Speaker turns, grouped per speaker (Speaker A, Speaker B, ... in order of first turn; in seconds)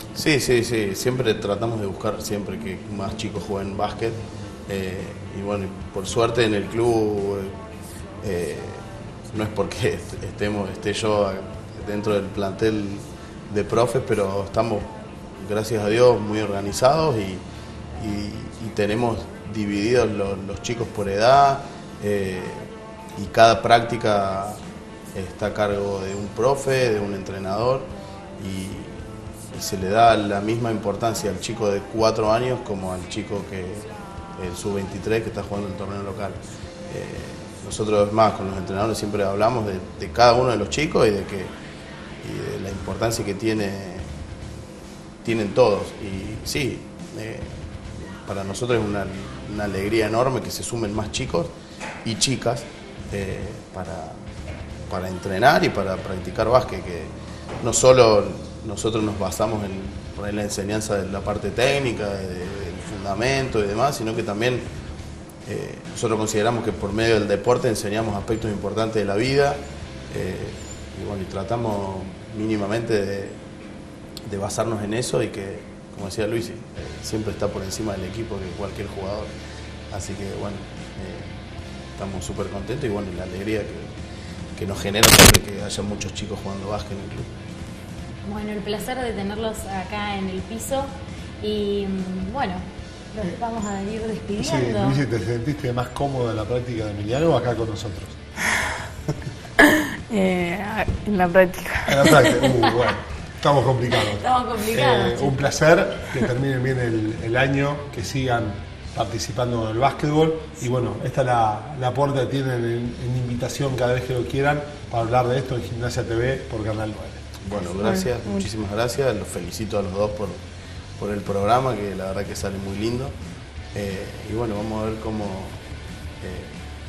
Speaker A: 0.1-7.6, 8.2-17.4, 18.0-24.6, 25.1-41.5, 42.2-44.1, 45.2-47.6, 48.2-51.5, 52.0-54.2, 54.9-64.7, 65.5-73.4, 74.3-79.3, 79.9-81.3, 82.0-83.9, 84.6-87.3, 117.4-120.4, 121.0-123.2, 123.7-125.6, 126.2-126.5
Speaker B: 88.2-95.0, 104.0-105.4
Speaker C: 94.4-98.2, 101.9-117.4
Speaker D: 99.6-102.5, 117.8-118.5